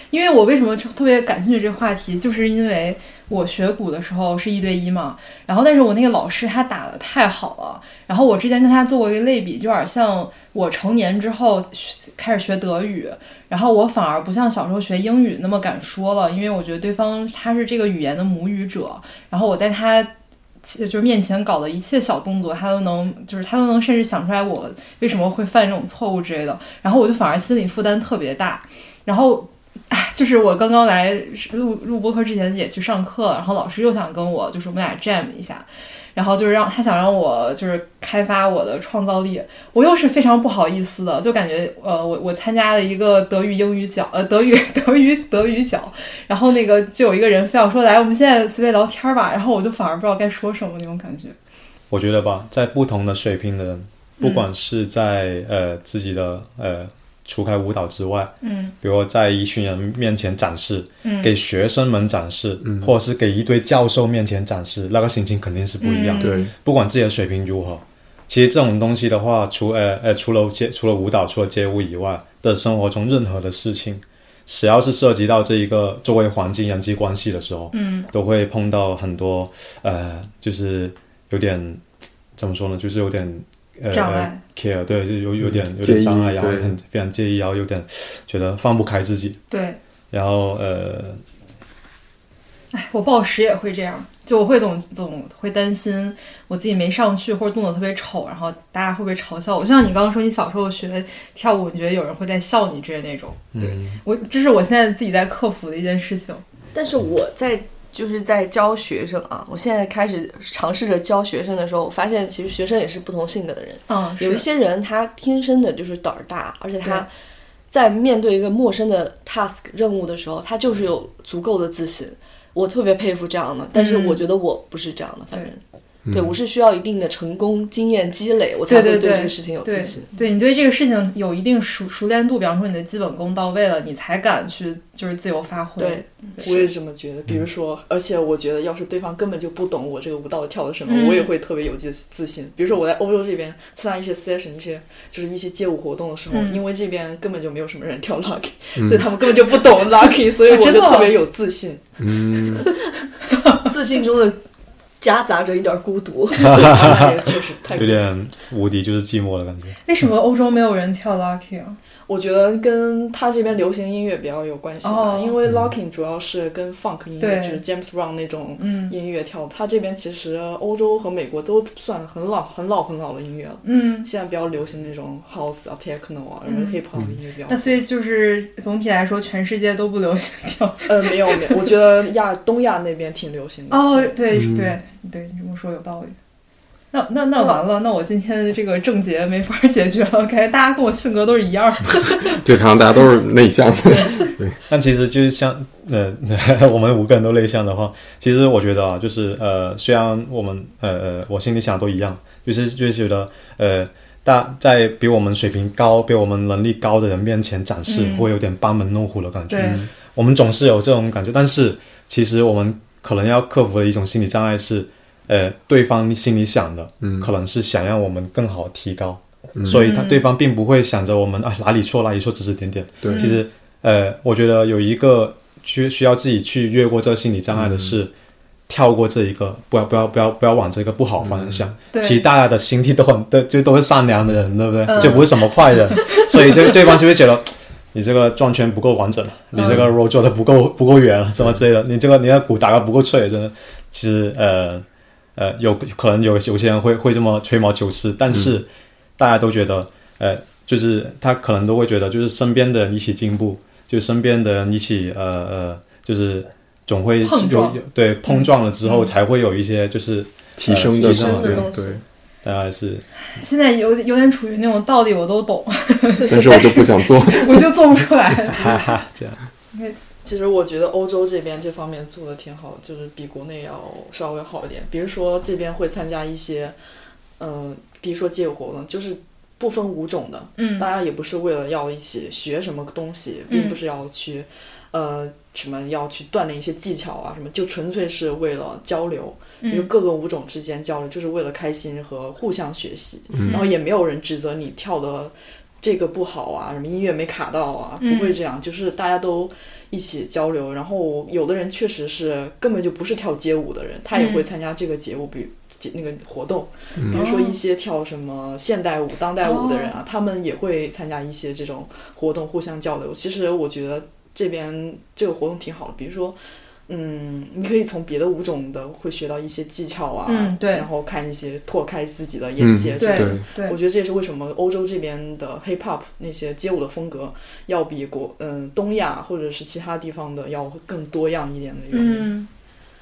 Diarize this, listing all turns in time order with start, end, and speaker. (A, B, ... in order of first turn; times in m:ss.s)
0:00.1-0:51.4 A
0:51.9-1:21.8 B
0:54.2-0:54.5 A
0:58.4-0:58.7 A
1:01.0-1:01.3 A
1:02.6-1:02.9 C
1:05.8-1:06.5 A
1:06.2-1:06.5 C
1:17.7-1:18.1 A
1:22.4-1:29.4 B
1:23.9-1:24.4 A
1:25.4-1:26.7 C
1:29.5-1:29.8 A
1:30.1-1:31.2 B
1:32.7-1:46.4 A
1:43.5-1:44.0 B
1:46.7-1:57.1 D
1:53.9-1:54.5 A
1:57.7-2:10.2 D
2:03.7-2:04.2 A
2:06.1-2:06.4 C
2:08.7-2:16.7 A
2:15.8-2:16.7 D
2:16.4-2:32.4 E
2:20.9-2:21.3 A
2:26.3-2:26.6 A
2:28.8-2:29.1 C
2:30.5-2:31.2 A
2:32.0-2:32.7 C
2:33.6-2:34.4 D
2:35.0-2:37.0 D
2:36.4-2:38.0 E
2:36.5-2:36.9 B
2:37.8-2:39.8 B
2:39.8-2:41.8 A
2:42.1-2:57.8 E
2:44.8-2:45.4 A
2:47.2-2:47.6 A
2:48.6-2:49.0 A
2:53.6-2:54.1 A
2:56.5-2:56.8 A
2:57.5-3:01.6 A
3:00.9-3:04.2 E
3:03.7-3:06.2 A
3:04.3-3:04.8 C
3:06.9-3:12.4 A
3:12.4-3:14.6 C
3:13.9-3:14.3 A
3:14.7-3:48.1 B
3:27.9-3:28.3 A
3:29.5-3:29.8 A
3:29.6-3:29.9 C
3:37.0-3:37.3 C
3:39.6-3:39.8 C
3:39.7-3:40.3 A
3:43.0-3:43.3 C
3:43.1-3:43.4 A
3:47.5-3:48.0 C
3:48.7-4:04.8 B
3:51.2-3:51.7 C
3:51.9-3:52.3 A
3:54.9-3:55.3 A
3:55.9-3:56.7 A
3:59.5-3:59.8 A
4:05.4-4:21.7 B
4:17.2-4:19.1 A
4:20.6-4:22.0 C
4:20.9-4:22.0 D
4:22.4-4:23.0 B
4:23.4-4:28.8 A
4:26.3-4:27.8 C
4:28.5-4:29.4 B
4:30.2-4:36.8 E
4:37.4-5:16.4 E
4:40.6-4:40.9 A
4:43.5-4:43.8 A
4:49.6-4:49.9 A
4:53.3-4:53.6 C
4:53.4-4:53.8 A
4:58.0-4:58.4 A
5:04.1-5:04.5 A
5:07.0-5:07.2 C
5:07.1-5:07.6 A
5:09.4-5:10.0 A
5:16.9-5:32.3 E
5:20.3-5:20.9 A
5:22.6-5:23.5 C
5:23.0-5:23.8 A
5:31.9-5:32.5 A